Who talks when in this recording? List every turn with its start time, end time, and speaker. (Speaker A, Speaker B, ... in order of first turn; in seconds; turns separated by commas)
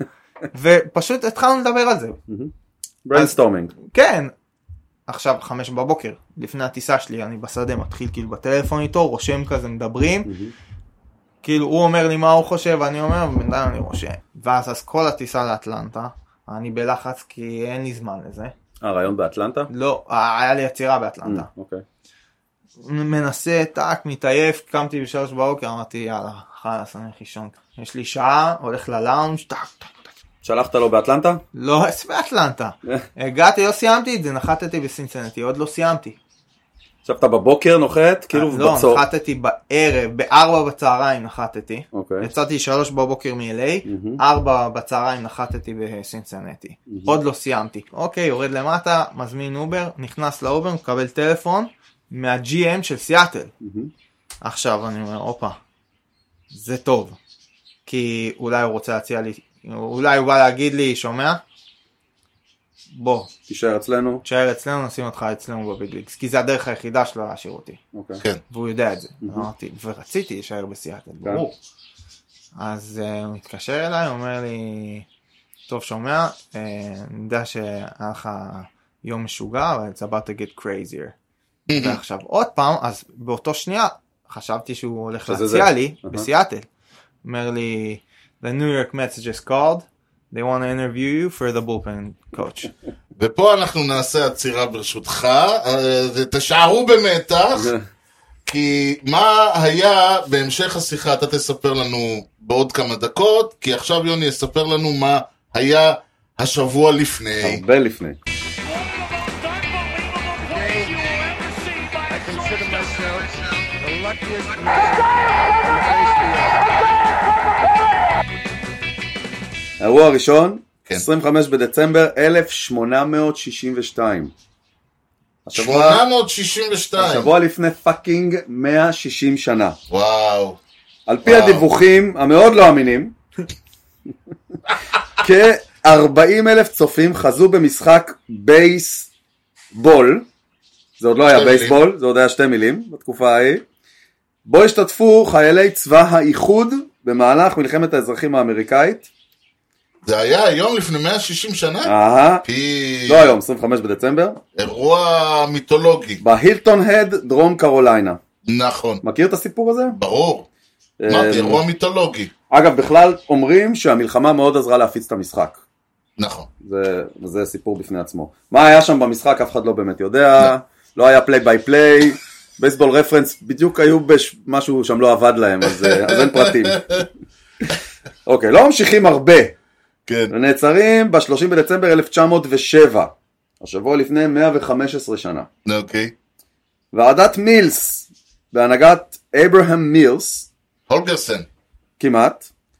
Speaker A: 0.5-2.2, Speaker B: 3.0-3.7, Speaker A: 3.1-4.3, Speaker A: 5.1-10.3, Speaker B: 10.2-10.5, Speaker A: 11.4-18.5, Speaker B: 18.8-19.7, Speaker A: 19.7-21.5, Speaker B: 21.2-21.8, Speaker A: 22.8-30.1, Speaker B: 30.4-31.4, Speaker A: 31.5-36.2, Speaker B: 37.0-39.0, Speaker A: 38.3-53.5, Speaker B: 41.9-42.3, Speaker B: 43.9-44.2, Speaker B: 46.9-47.1, Speaker B: 53.6-53.9, Speaker A: 54.4-55.6, Speaker A: 56.5-57.2, Speaker A: 57.9-61.4, Speaker A: 62.9-63.3, Speaker B: 63.5-64.2, Speaker A: 64.2-67.8, Speaker B: 67.9-68.2, Speaker A: 68.5-71.5, Speaker A: 72.5-75.0, Speaker A: 75.7-81.1, Speaker C: 81.7-82.0, Speaker A: 81.7-86.7, Speaker B: 85.3-86.3, Speaker A: 87.2-92.7, Speaker C: 93.2-97.7, Speaker C: 98.5-107.6, Speaker B: 107.4-108.2, Speaker D: 110.3-116.6, Speaker B: 119.8-124.3, Speaker B: 125.5-126.0, Speaker C: 125.5-127.3, Speaker B: 127.0-129.8, Speaker C: 129.9-130.6, Speaker B: 131.1-133.1, Speaker C: 131.2-131.7, Speaker B: 135.2-139.1, Speaker B: 139.7-140.2, Speaker B: 141.0-143.6, Speaker C: 141.3-141.8, Speaker B: 144.4-149.1, Speaker C: 150.0-153.3, Speaker B: 151.8-152.4, Speaker B: 153.1-154.4, Speaker C: 154.6-156.2, Speaker B: 156.2-158.2, Speaker C: 158.4-159.0, Speaker B: 159.0-160.0, Speaker C: 159.9-160.5, Speaker B: 161.0-161.6, Speaker C: 161.1-162.3, Speaker B: 162.5-165.6, Speaker C: 166.2-166.5, Speaker B: 166.6-177.0, Speaker C: 175.8-177.0, Speaker B: 178.2-179.5, Speaker C: 180.1-180.3, Speaker B: 180.3-185.5, Speaker C: 185.7-186.1, Speaker B: 186.9-190.5, Speaker C: 190.9-191.4, Speaker B: 192.0-192.5